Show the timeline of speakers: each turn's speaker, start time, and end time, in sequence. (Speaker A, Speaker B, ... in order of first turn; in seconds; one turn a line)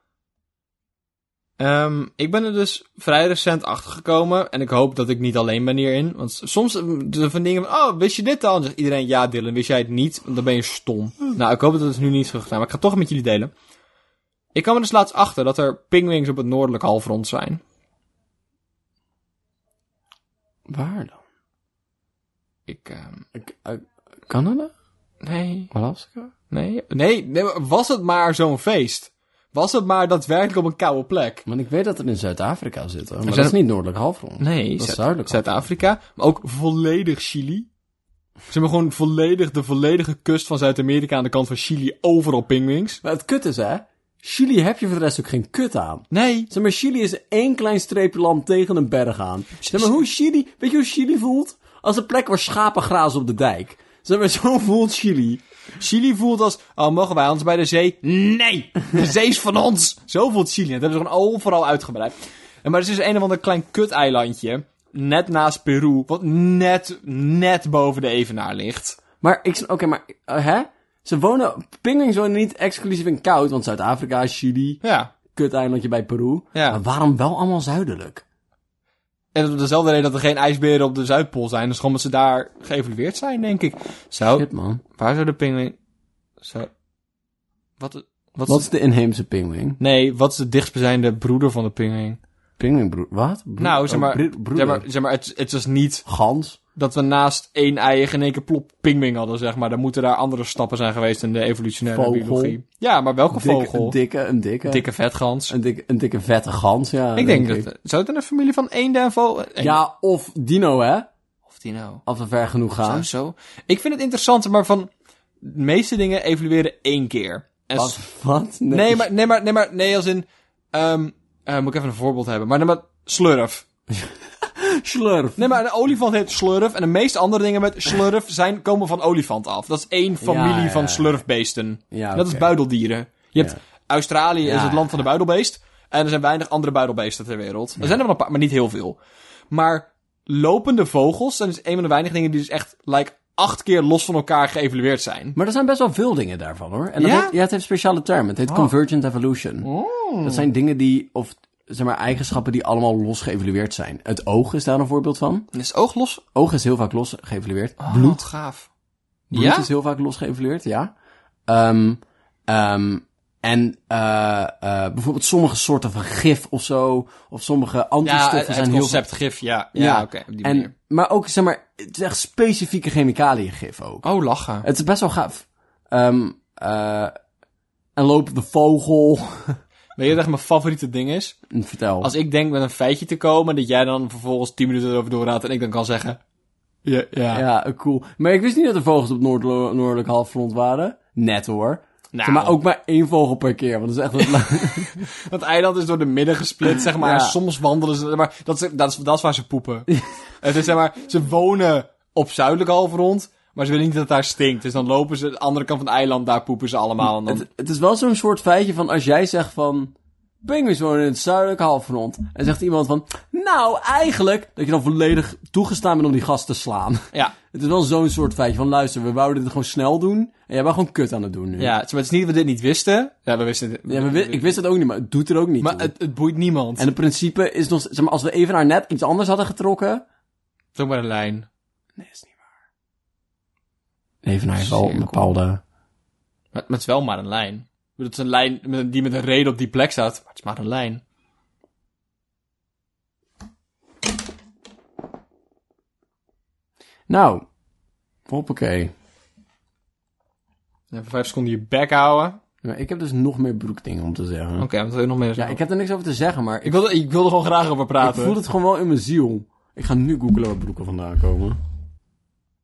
Speaker A: 1.6-13.5
Speaker A: 14.5-17.6
Speaker B: 20.7-21.2
Speaker A: 22.7-23.2
Speaker B: 23.4-24.7
Speaker A: 25.2-25.7
Speaker B: 25.7-26.3
Speaker A: 26.5-31.4
Speaker B: 31.5-35.5
Speaker A: 33.3-33.5
Speaker A: 34.4-37.7
Speaker A: 38.5-43.0
Speaker B: 43.0-55.4
Speaker A: 46.1-46.5
Speaker A: 49.6-50.0
Speaker A: 55.8-69.0
Speaker B: 69.2-74.8
Speaker A: 74.8-75.1
Speaker B: 75.3-78.2
Speaker A: 76.5-76.8
Speaker A: 79.3-85.8
Speaker B: 84.3-84.8
Speaker A: 86.4-86.7
Speaker A: 87.8-88.7
Speaker B: 88.5-89.8
Speaker A: 89.8-92.2
Speaker B: 92.6-94.8
Speaker A: 93.6-96.0
Speaker B: 96.1-96.6
Speaker A: 96.8-104.0
Speaker B: 101.9-102.6
Speaker B: 103.3-104.9
Speaker A: 104.7-105.5
Speaker B: 105.5-107.7
Speaker A: 107.2-109.8
Speaker B: 109.6-111.1
Speaker A: 111.5-112.0
Speaker B: 112.1-113.1
Speaker A: 112.8-114.9
Speaker A: 115.4-118.0
Speaker B: 117.8-119.1
Speaker A: 118.7-123.7
Speaker B: 123.9-125.4
Speaker A: 125.4-139.0
Speaker B: 130.2-131.2
Speaker B: 131.9-132.5
Speaker B: 134.4-135.0
Speaker A: 139.5-145.4
Speaker B: 145.4-149.7
Speaker A: 147.0-147.4
Speaker A: 149.6-150.5
Speaker B: 150.2-155.5
Speaker A: 155.5-156.2
Speaker B: 156.3-158.2
Speaker A: 157.8-158.7
Speaker B: 159.3-160.9
Speaker A: 159.3-159.7
Speaker B: 161.5-169.0
Speaker A: 168.0-170.7
Speaker B: 169.8-174.0
Speaker A: 174.0-174.7
Speaker B: 174.6-177.1
Speaker B: 178.0-179.6
Speaker A: 180.0-181.4
Speaker B: 181.5-182.1
Speaker A: 182.0-186.2
Speaker A: 186.8-187.4
Speaker B: 187.3-195.0
Speaker A: 192.1-192.6
Speaker A: 195.0-207.5
Speaker B: 196.9-197.4
Speaker B: 207.0-221.8
Speaker A: 221.6-224.6
Speaker B: 223.9-225.9
Speaker A: 225.6-226.9
Speaker B: 226.8-230.1
Speaker A: 230.8-231.5
Speaker B: 232.0-232.5
Speaker B: 234.2-235.6
Speaker A: 234.6-235.3
Speaker A: 236.5-241.0
Speaker B: 247.1-247.4
Speaker B: 248.3-248.9
Speaker A: 250.9-252.4
Speaker B: 252.6-254.7
Speaker A: 254.6-255.6
Speaker B: 255.4-256.8
Speaker A: 256.6-258.4
Speaker B: 258.0-261.6